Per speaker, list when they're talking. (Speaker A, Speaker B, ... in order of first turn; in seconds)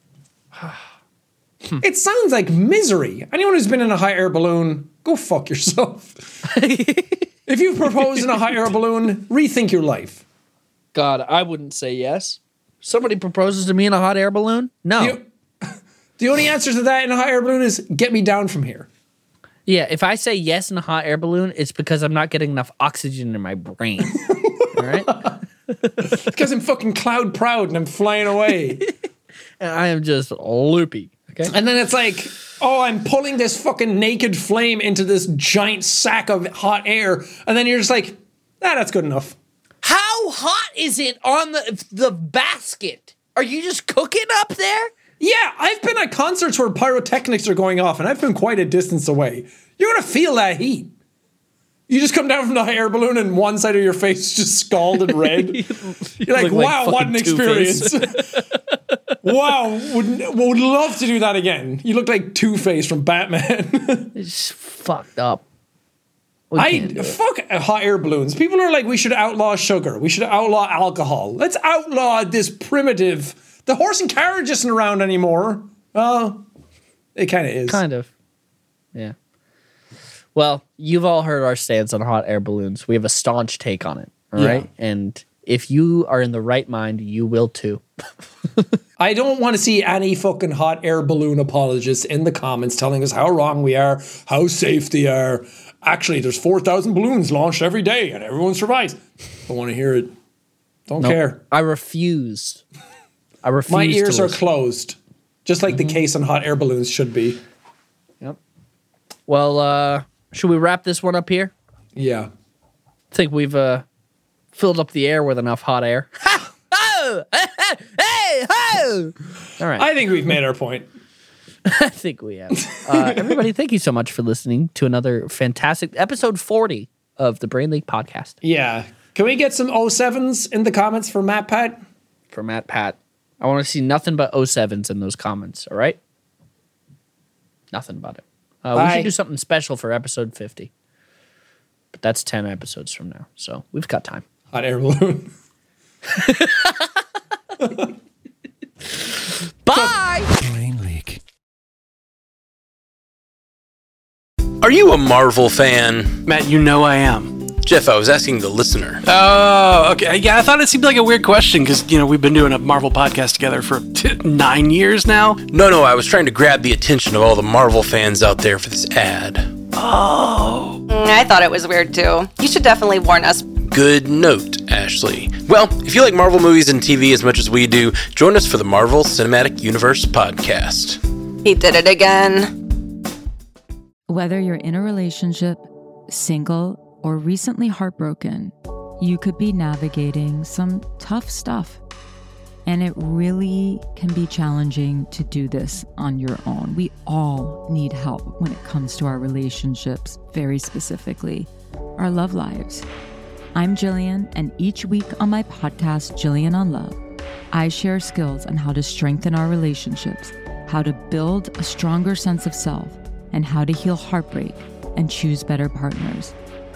Speaker A: 1.8-6.4, 7.5-10.2, 15.0-18.9, 24.2-25.3, 26.0-28.8, 31.4-39.4, 45.2-50.9, 51.9-55.6, 56.2-58.3, 59.2-64.1, 66.5-76.4, 77.2-77.8, 84.3-84.7, 89.0-100.1, 100.9-101.4, 103.7-107.4, 111.9-112.3, 119.8-120.9, 122.6-123.4, 128.4-131.8, 138.7-139.1, 144.5-145.3, 147.6-147.9
Speaker B: 6.5-7.3, 8.0-8.4, 10.9-15.2, 19.6-26.1, 29.6-31.5, 39.8-44.9, 55.1-58.9, 64.1-65.4, 66.5-67.2, 77.7-78.1, 80.3-87.8, 101.0-102.6, 103.4-104.4, 105.7-106.0, 109.3-111.5, 113.1-113.8, 114.5-119.9, 121.6-128.4, 132.3-136.0, 137.7-140.7, 141.9-144.2, 146.1-146.9, 149.6-150.3
Speaker C: 150.4-151.2, 156.2-157.3, 159.0-165.4, 169.7-170.8
Speaker D: 154.6-156.2, 157.4-159.0, 165.4-169.6, 173.6-181.0
Speaker E: 170.9-173.5, 181.4-182.6
Speaker F: 184.1-191.8, 192.7-202.8, 203.5-207.0, 207.5-216.3